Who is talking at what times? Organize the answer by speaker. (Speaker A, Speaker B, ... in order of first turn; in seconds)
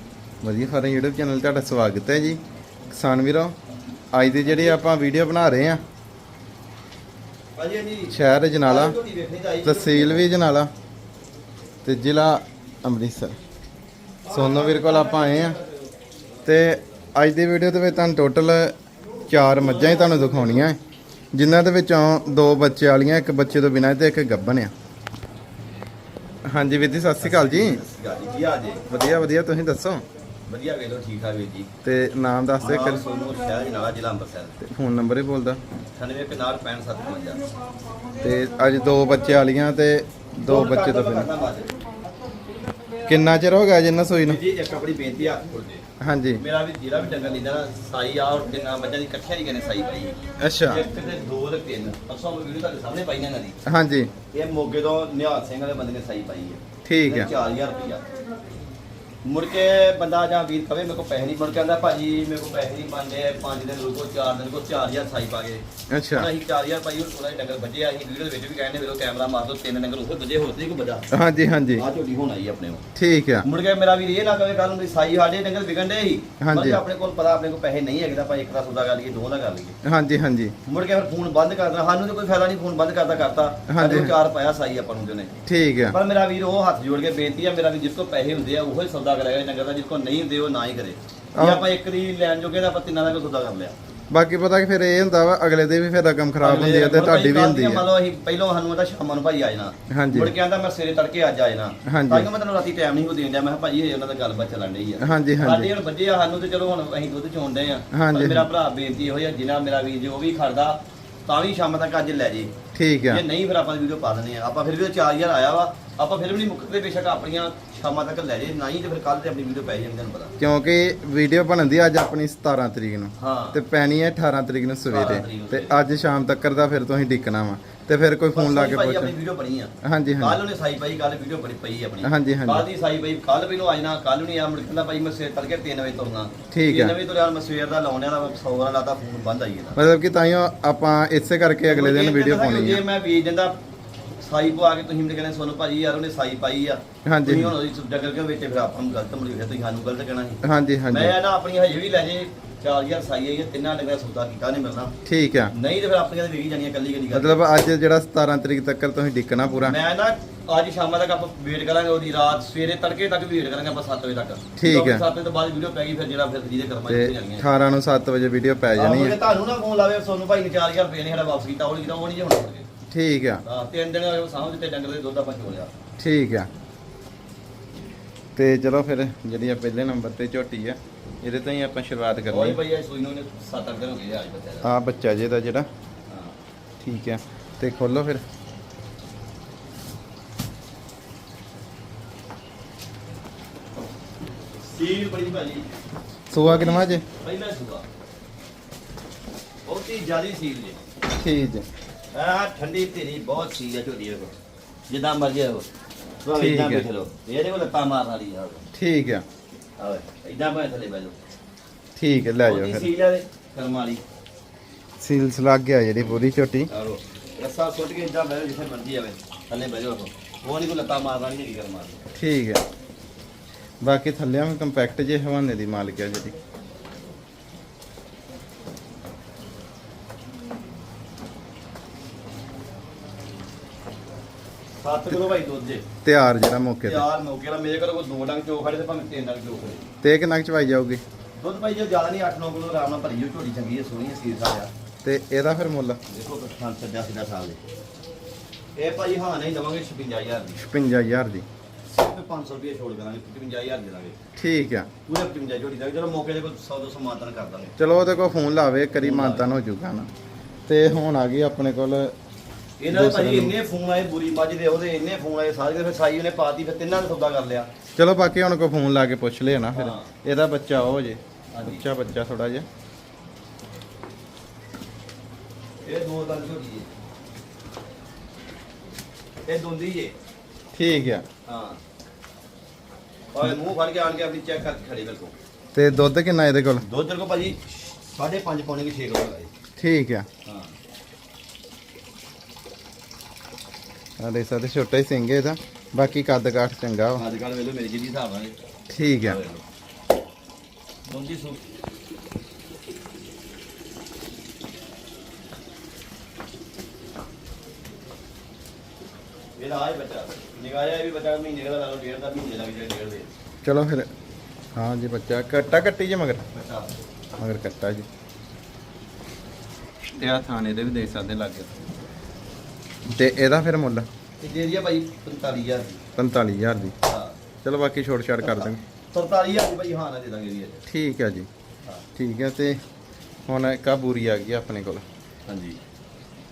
Speaker A: 0.4-3.5, 4.1-5.8, 8.1-9.0, 9.6-10.7, 11.8-13.4, 14.3-15.6, 16.4-18.8, 19.3-20.8, 21.3-24.7, 26.5-27.8, 28.9-30.0, 31.8-33.0, 34.6-35.6, 38.2-41.3, 43.0-44.4, 46.0-46.4, 50.4-50.9, 53.7-54.1, 56.9-57.3, 65.9-66.3, 71.1-71.8, 73.0-73.5, 76.4-76.8, 79.8-80.5, 83.7-84.1, 85.5-86.0, 91.4-91.6, 94.1-97.9, 99.9-100.3, 101.9-102.3, 105.0-105.7, 107.9-108.5, 112.8-113.2, 120.4-129.1, 129.8-130.4, 132.0-132.7, 136.5-136.9, 139.8-142.8, 147.1-147.6, 150.4-151.2, 155.1-155.5, 157.1-159.8, 164.6-165.1, 166.9-169.2, 172.9-173.4, 176.0-176.5, 178.4-182.6, 184.6-185.7, 186.8-188.2, 196.3-197.0, 201.1-201.7, 206.3-206.8, 208.7-209.2, 212.0-212.9, 215.0-216.7, 222.2-222.6, 223.8-226.3, 236.0-237.0, 240.0-241.0, 245.0-246.0, 250.6-251.5, 254.4-254.9, 257.8-260.1, 260.7-262.1, 262.9-263.6, 268.0-272.7, 280.7-281.3, 285.8-286.8, 289.8-290.3, 294.2-297.2, 298.9-299.4, 313.6-314.1, 314.8-316.4, 317.4-318.1, 320.1-321.8, 323.1-324.1, 326.2-326.9, 327.6-328.8, 330.9-331.5, 332.2-332.8, 333.5-335.0
Speaker B: 4.5-4.8, 7.6-8.1, 8.7-10.3, 14.2-15.9, 19.4-20.7, 27.2-28.9, 30.5-31.7, 32.6-34.6, 36.0-37.4, 40.4-41.7, 44.2-45.9, 46.4-53.6, 54.3-58.0, 59.2-71.1, 71.8-72.9, 73.4-79.8, 80.7-85.3, 85.9-93.8, 96.4-112.5, 113.1-120.4, 123.2-123.6, 124.9-125.8, 128.3-139.8, 141.7-143.6, 144.2-154.9, 155.5-157.4, 159.6-167.4, 168.8-172.7, 173.4-175.7, 182.3-184.7, 186.1-186.3, 194.6-195.7, 196.4-197.8, 199.7-200.8, 202.1-204.3, 204.9-205.7, 206.2-208.7, 209.8-211.2, 212.4-214.0, 216.7-222.1, 234.8-235.9, 236.8-239.9, 241.4-244.7, 246.1-247.6, 248.8-250.6, 251.9-254.2, 255.1-257.8, 259.0-259.5, 262.8-267.7, 269.7-270.1, 271.5-271.8, 275.8-276.9, 279.5-280.1, 281.5-281.8, 283.3-285.3, 286.8-289.5, 290.5-290.8, 297.2-298.6, 299.2-299.6, 301.1-301.6, 309.6-313.3, 316.5-316.9, 324.4-326.0, 327.1-327.4, 328.4-330.8, 335.5-335.8